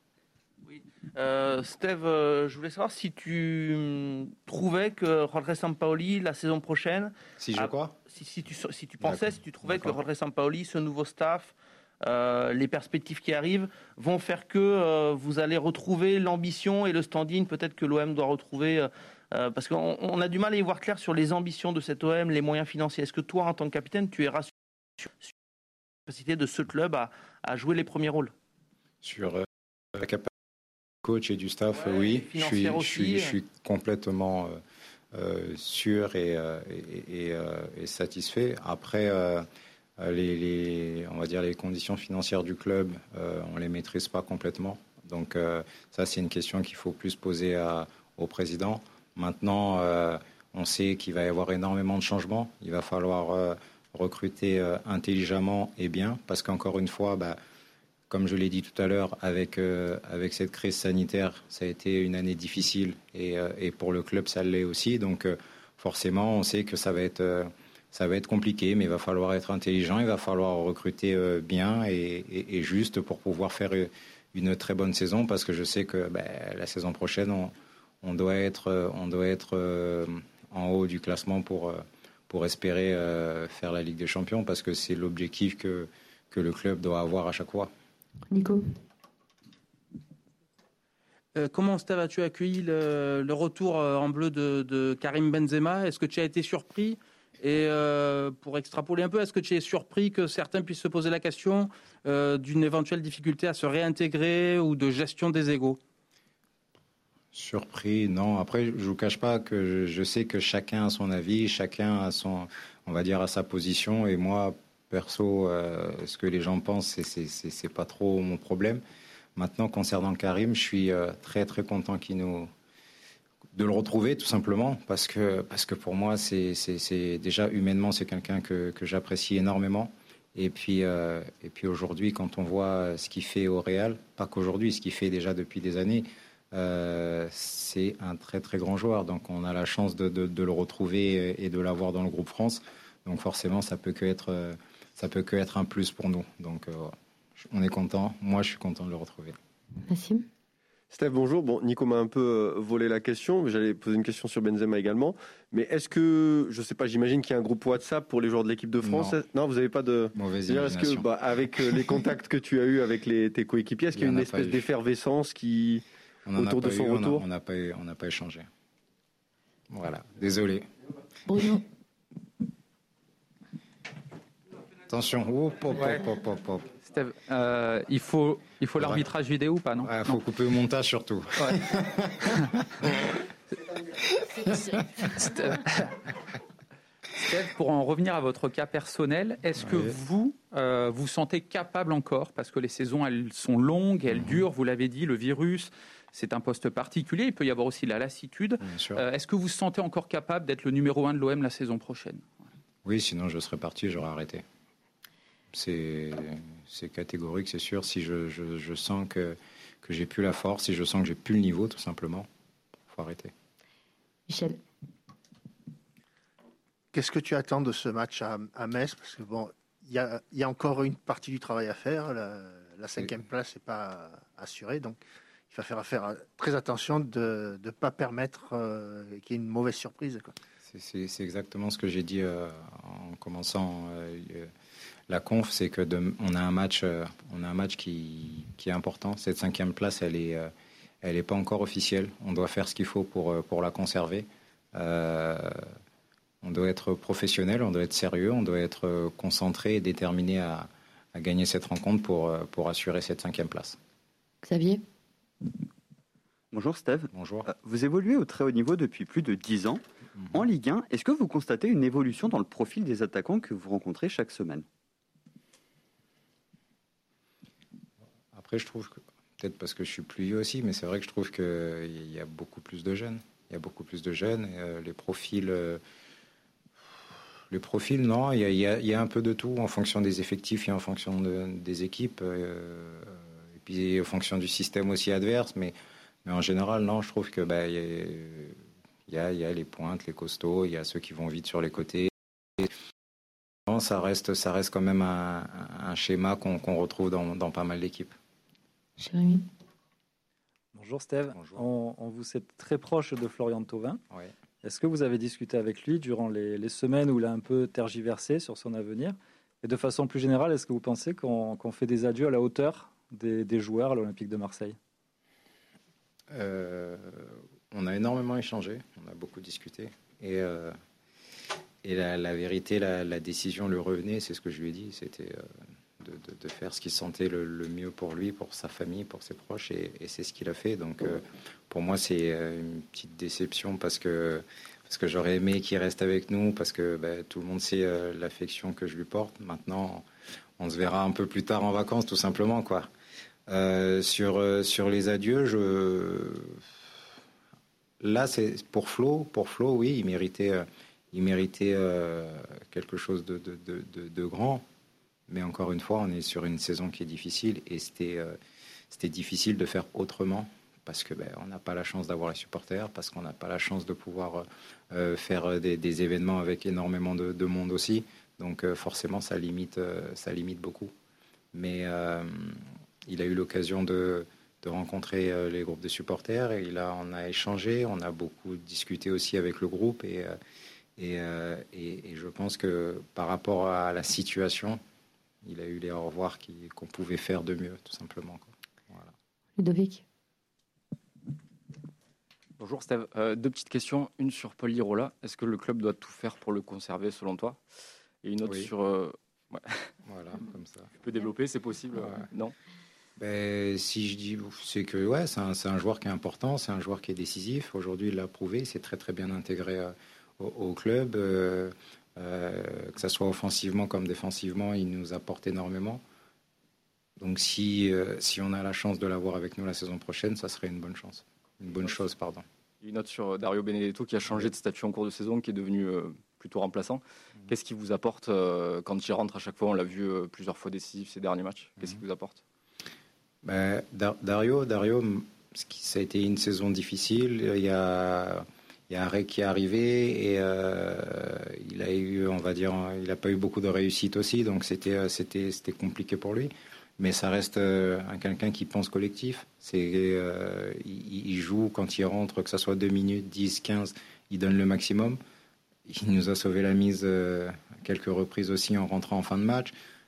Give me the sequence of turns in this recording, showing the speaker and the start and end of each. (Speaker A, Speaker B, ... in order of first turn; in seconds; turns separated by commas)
Speaker A: 0.7-25.3, Speaker B: 7.4-8.0, Speaker B: 9.0-10.0, Speaker A: 26.1-28.3, Speaker B: 29.0-30.3, Speaker B: 31.0-34.6, Speaker A: 31.7-33.4, Speaker B: 35.1-39.5, Speaker B: 40.0-57.4, Speaker B: 58.1-87.7, Speaker C: 88.3-88.6, Speaker D: 91.4-105.8, Speaker B: 107.3-118.8, Speaker B: 119.4-122.5, Speaker B: 123.6-149.3, Speaker C: 149.9-150.2, Speaker E: 150.9-165.8, Speaker B: 158.8-159.2, Speaker B: 160.1-161.1, Speaker B: 163.9-164.7, Speaker B: 166.3-168.5, Speaker E: 166.4-167.2, Speaker B: 169.7-170.7, Speaker C: 171.3-171.6, Speaker B: 174.9-176.7, Speaker F: 175.8-176.0, Speaker F: 176.9-180.2, Speaker B: 178.8-179.1, Speaker B: 179.8-182.9, Speaker B: 184.3-185.1, Speaker F: 185.1-186.0, Speaker F: 187.2-202.2, Speaker B: 189.6-190.0, Speaker B: 194.1-194.4, Speaker B: 198.6-199.1, Speaker B: 202.8-204.4, Speaker B: 205.5-212.3, Speaker B: 212.9-213.3, Speaker C: 214.3-214.6, Speaker G: 216.9-225.0, Speaker G: 225.5-230.3, Speaker B: 230.7-234.5, Speaker B: 235.1-240.5, Speaker B: 241.0-245.6, Speaker B: 246.4-253.8, Speaker C: 254.4-254.8, Speaker H: 256.5-264.6, Speaker B: 257.1-257.5, Speaker B: 268.3-275.8, Speaker B: 277.5-288.6, Speaker B: 289.1-292.7, Speaker B: 293.7-298.1, Speaker C: 299.0-299.4, Speaker I: 300.7-304.0, Speaker B: 301.3-301.6, Speaker I: 304.6-314.8, Speaker B: 316.3-320.7, Speaker B: 321.8-325.4, Speaker B: 326.0-340.1, Speaker B: 340.6-342.9, Speaker B: 343.5-346.6, Speaker B: 348.0-354.6, Speaker B: 355.3-358.4, Speaker B: 358.9-370.9, Speaker B: 371.5-380.4, Speaker B: 381.0-384.8, Speaker B: 385.4-389.1, Speaker C: 389.6-390.0, Speaker J: 392.6-397.6, Speaker J: 398.2-399.9, Speaker B: 398.5-398.7, Speaker B: 400.0-400.9, Speaker J: 401.0-402.6, Speaker B: 403.2-416.0, Speaker B: 417.2-422.4, Speaker J: 422.8-432.4, Speaker B: 433.4-455.2, Speaker B: 455.9-459.7